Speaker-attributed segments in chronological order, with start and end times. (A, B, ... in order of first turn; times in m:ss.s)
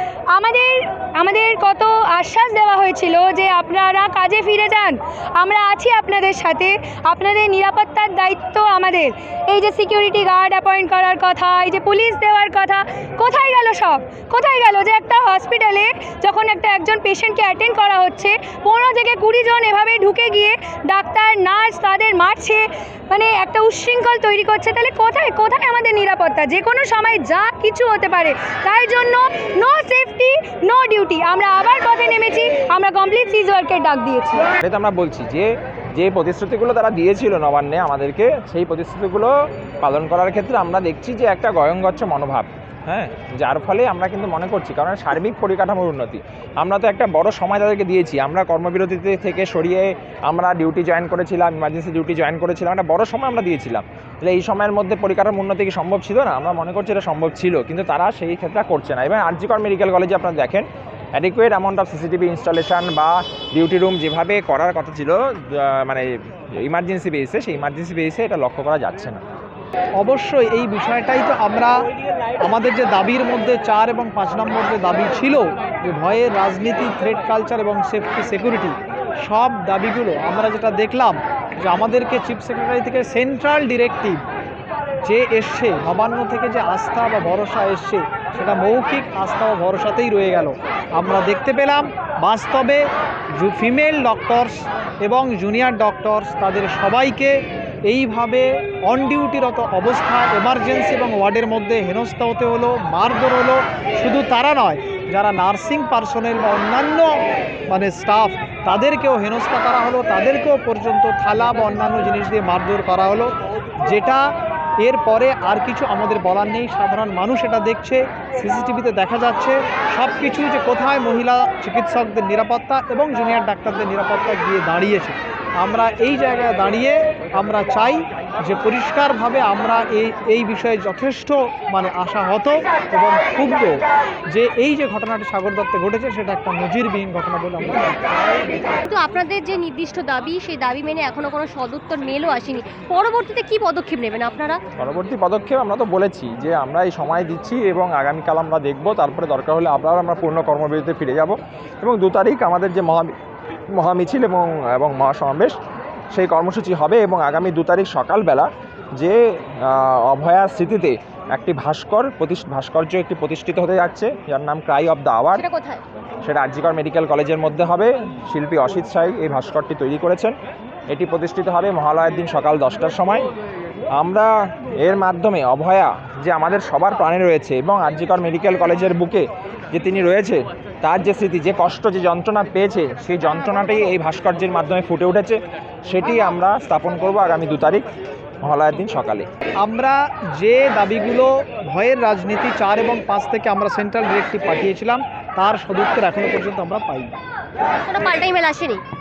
0:00.3-0:34.5 A
0:34.6-1:09.2 B
1:10.0-1:11.8 C
1:12.4-1:24.2 C
1:25.0-1:32.8 C
1:33.4-1:47.2 C
1:47.7-1:53.3 C
1:53.9-1:54.3 C
1:54.8-2:18.1 C
2:18.8-2:24.6 D
2:24.8-2:33.1 B
2:33.8-2:35.6 B
2:36.1-2:45.4 B
2:45.3-2:45.8 D
2:46.2-2:50.3 B
2:50.9-2:53.2 B
2:54.0-2:54.3 B
2:54.8-3:07.8 B
3:08.4-3:09.3 B
3:09.6-3:17.2 C
3:17.8-3:18.8 D